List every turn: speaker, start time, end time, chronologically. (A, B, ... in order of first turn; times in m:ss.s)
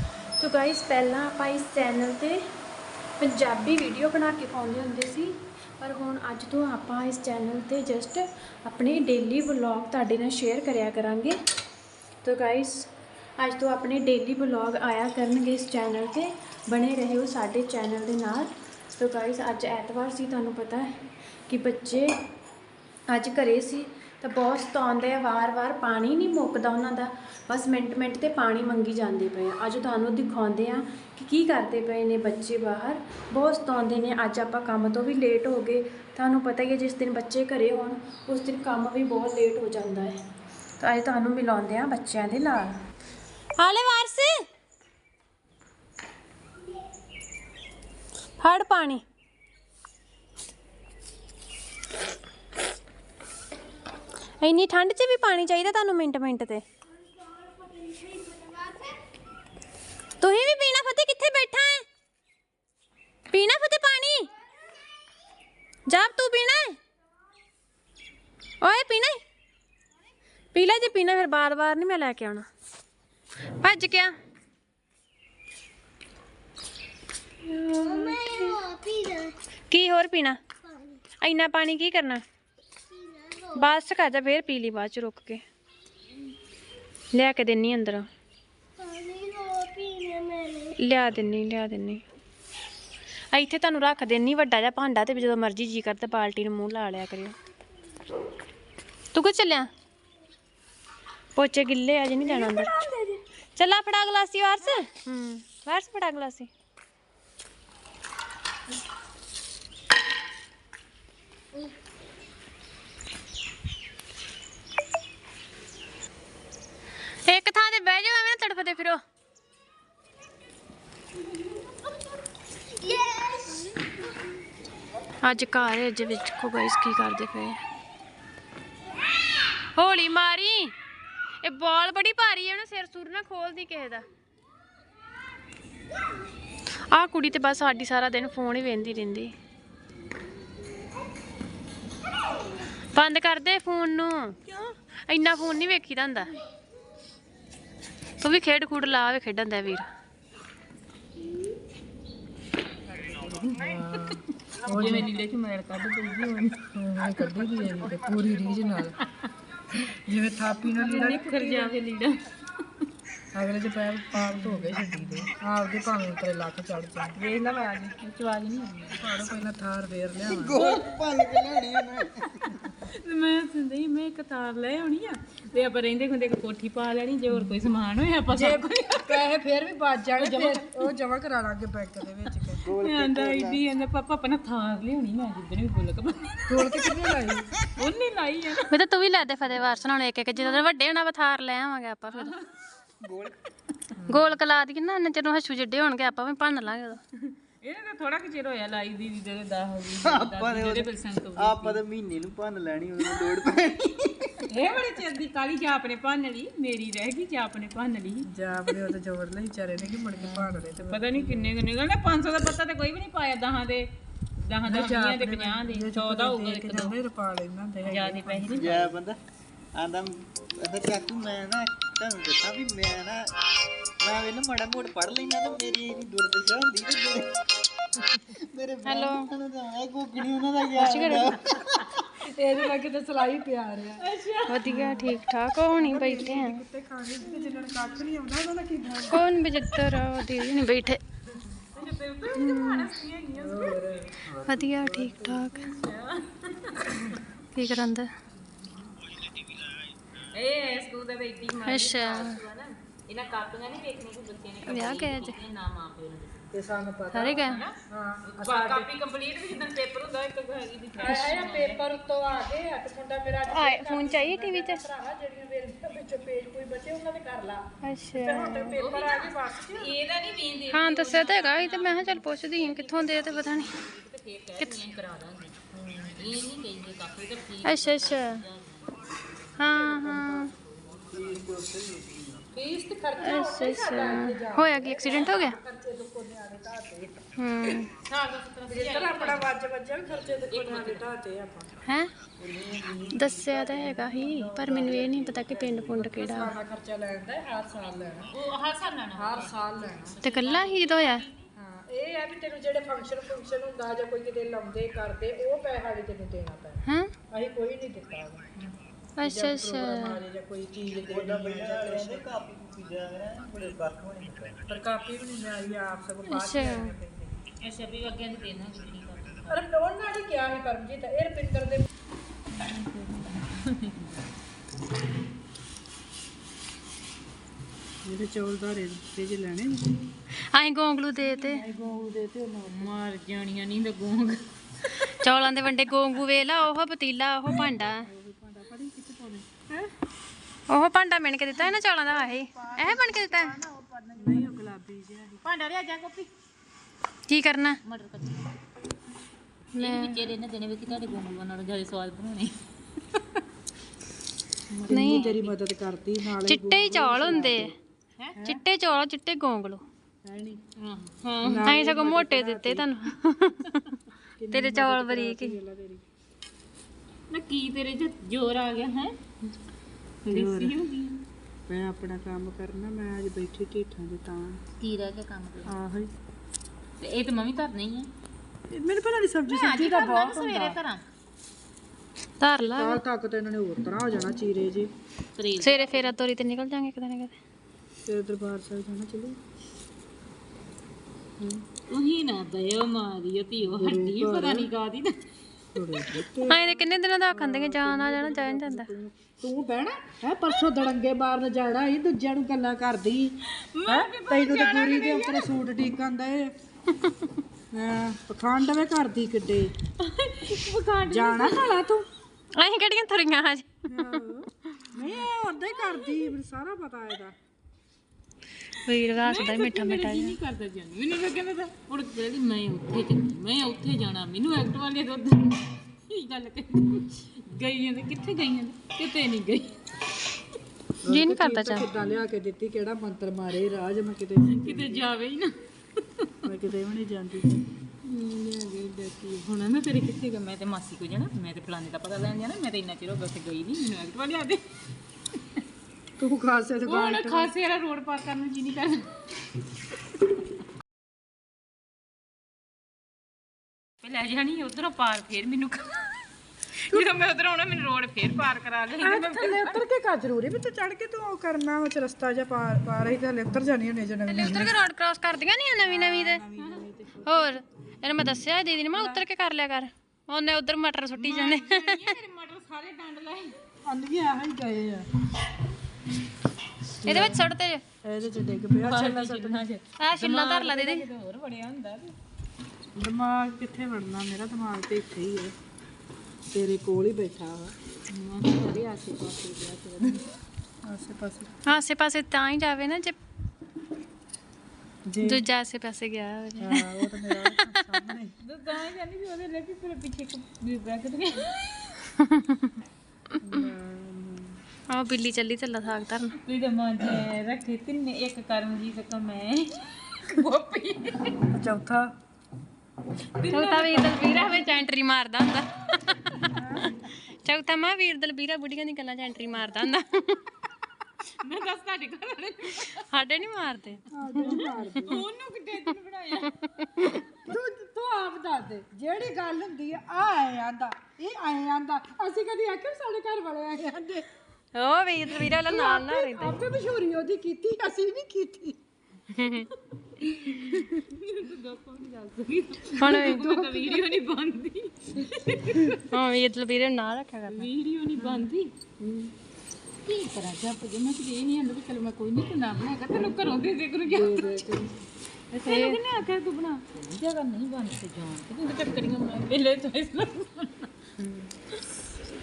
0:00.4-0:02.4 A
0:03.2-0:11.4 A
0:12.2-0:20.9 A
0:21.5-0:22.1 A
0:23.1-0:40.2 A
0:40.8-0:42.8 A
0:43.6-0:44.3 A
0:48.4-0:49.0 A
0:54.4-0:56.6 A
1:00.2-1:01.8 A
1:03.3-1:04.3 A
1:05.9-1:06.8 A
1:08.6-1:09.2 A
1:10.5-1:12.4 A
1:13.6-1:14.1 A
1:17.4-1:20.4 A
1:21.2-1:22.2 A
1:23.5-1:25.4 A
1:27.1-1:28.1 A
1:30.4-1:32.0 A
1:33.3-1:37.3 A
1:39.1-1:39.7 A
1:41.4-1:42.7 A
1:42.2-1:43.2 B
1:43.6-1:46.5 A
1:57.3-1:59.0 A
2:05.2-2:07.6 A
2:09.7-2:10.7 A
2:11.4-2:14.0 A
2:16.9-2:19.3 A
2:22.9-2:24.4 A
2:25.1-2:26.3 A
2:28.2-2:29.9 A
2:32.9-2:36.6 C
2:33.6-2:35.1 B
2:36.7-2:39.0 B
2:39.8-2:41.7 B
2:40.7-2:42.2 C
2:43.3-2:47.4 B
2:44.2-2:45.2 C
2:47.2-2:49.2 C
2:48.9-2:50.6 B
2:50.3-2:52.7 D
2:50.6-2:51.5 C
2:52.6-2:59.2 C
2:58.3-3:02.6 B
3:00.2-3:00.9 C
3:02.6-3:03.6 D
3:02.7-3:06.8 C
3:06.5-3:07.5 B
3:07.8-3:08.7 C
3:08.7-3:12.3 A
3:10.4-3:10.6 C
3:12.1-3:12.4 C
3:13.0-3:13.3 D
3:14.1-3:17.0 A
3:17.2-3:21.8 C
3:20.0-3:24.4 D
3:24.5-3:28.8 C
3:28.2-3:31.5 B
3:30.1-3:33.9 C
3:34.5-3:36.9 C
3:34.6-3:38.7 B
3:37.8-3:39.0 C
3:38.5-3:39.2 D
3:39.7-3:43.3 D
3:44.0-3:47.4 D
3:48.2-3:52.1 D
3:48.8-3:49.3 A
3:50.8-3:51.4 A
3:52.2-3:54.0 B
3:54.0-3:54.7 C
3:54.5-3:56.6 A
3:54.6-3:55.2 B
3:55.8-3:59.2 B
3:59.1-4:01.0 A
4:01.6-4:03.8 C
4:02.3-4:02.9 A
4:03.3-4:05.6 B
4:04.4-4:05.7 A
4:05.5-4:07.2 C
4:07.5-4:08.1 A
4:10.3-4:16.5 C
4:11.6-4:12.4 A
4:14.7-4:15.4 A
4:16.5-4:18.9 B
4:17.1-4:17.6 A
4:17.4-4:21.8 C
4:21.0-4:29.9 B
4:21.0-4:21.3 A
4:23.5-4:24.8 A
4:27.8-4:28.8 A
4:28.7-4:35.5 C
4:30.7-4:33.7 A
4:35.7-4:36.2 B
4:36.1-4:39.0 C
4:37.6-4:38.4 A
4:39.6-4:40.5 A
4:39.6-4:41.5 B
4:41.1-4:42.4 D
4:42.5-4:47.3 B
4:43.2-4:45.6 A
4:47.4-4:47.9 A
4:48.0-4:49.5 C
4:48.6-4:51.7 B
4:50.4-4:51.0 C
4:51.8-4:52.1 A
4:52.4-4:53.7 D
4:53.1-4:56.5 A
4:53.6-4:58.3 B
4:54.4-4:55.8 D
4:58.3-5:01.4 C
4:59.2-5:00.1 B
5:00.2-5:01.2 A
5:01.5-5:08.7 B
5:06.8-5:07.1 A
5:09.2-5:10.2 A
5:09.2-5:12.3 B
5:11.0-5:14.7 D
5:14.7-5:17.4 B
5:16.3-5:16.9 A
5:17.6-5:19.6 C
5:19.5-5:21.9 B
5:22.5-5:24.1 C
5:28.0-5:30.1 B
5:30.5-5:31.6 A
5:31.2-5:32.9 B
5:32.7-5:35.1 C
5:35.1-5:38.1 A
5:38.0-5:39.5 B
5:40.7-5:43.6 A
5:41.5-5:44.5 C
5:44.2-5:45.4 B
5:45.4-5:46.3 C
5:47.3-5:47.8 A
5:47.8-5:48.5 C
5:49.7-5:50.2 A
5:49.8-5:52.6 C
5:53.1-5:53.4 C
5:54.7-5:55.4 C
5:54.8-5:57.7 B
5:54.9-5:55.4 A
5:56.4-5:57.7 A
5:58.4-5:58.6 B
5:58.4-5:59.8 A
6:00.2-6:00.6 B
6:00.8-6:01.7 C
6:01.2-6:03.9 A
6:01.4-6:02.9 B
6:04.4-6:06.0 B
6:04.5-6:05.6 A
6:07.3-6:09.2 C
6:10.2-6:10.7 B
6:10.3-6:11.2 C
6:11.7-6:14.6 B
6:14.8-6:15.7 C
6:15.6-6:16.1 B
6:17.0-6:18.1 C
6:18.7-6:20.8 B
6:19.5-6:21.0 C
6:22.4-6:23.0 A
6:22.7-6:24.9 B
6:25.4-6:26.1 C
6:25.6-6:27.3 A
6:28.0-6:29.4 B
6:31.4-6:31.6 B
6:31.9-6:35.2 C
6:33.6-6:34.7 B
6:35.7-6:43.3 B
6:36.5-6:38.9 A
6:43.5-6:45.5 C
6:43.9-6:46.5 B
6:47.7-6:49.7 B
6:50.0-6:51.8 C
6:51.1-6:52.0 B
6:52.5-6:54.2 A
6:53.9-6:57.4 B
6:58.8-7:00.4 A
6:59.1-7:09.8 C
7:11.0-7:15.0 B
7:11.1-7:11.9 A
7:14.5-7:16.3 C
7:16.4-7:17.6 B
7:18.0-7:24.6 C
7:26.2-7:27.5 B
7:26.8-7:29.1 C
7:34.0-7:36.2 C
7:36.9-7:39.8 C
7:39.0-7:44.8 B
7:44.3-7:46.4 A
7:45.8-7:47.6 B
7:47.2-7:52.2 A
7:48.9-7:49.2 B
7:51.2-7:53.5 C
7:53.8-7:55.1 B
7:57.0-7:57.4 B
7:57.0-7:57.8 A
7:58.0-7:59.6 B
7:58.7-8:02.1 C
8:00.0-8:01.0 A
8:02.9-8:05.5 B
8:06.5-8:07.8 B
8:08.1-8:10.2 C
8:10.8-8:11.6 B
8:11.6-8:13.2 A
8:15.0-8:15.4 B
8:15.2-8:17.8 A
8:16.6-8:18.3 B
8:18.4-8:21.9 C
8:22.1-8:22.7 A
8:23.4-8:24.6 B
8:24.9-8:26.4 A
8:26.4-8:31.4 C
8:31.5-8:32.1 B
8:33.4-8:34.8 C
8:33.5-8:36.4 A
8:36.5-8:36.9 B
8:37.2-8:40.4 A
8:41.4-8:43.1 C
8:42.9-8:44.6 A
8:44.1-8:45.2 B
8:44.4-8:46.7 C
8:46.8-8:47.2 A
8:47.3-8:54.2 B
8:54.7-8:56.6 A
8:55.3-8:58.8 B
8:59.3-8:59.7 A
9:00.2-9:06.0 C
9:00.5-9:00.8 B
9:03.0-9:03.4 A
9:03.0-9:04.0 B
9:06.1-9:07.7 A
9:07.5-9:08.7 C
9:08.2-9:08.4 B
9:09.0-9:09.3 B
9:10.0-9:14.6 C
9:14.1-9:15.0 B
9:15.6-9:16.0 A
9:15.6-9:20.9 C
9:21.2-9:21.5 B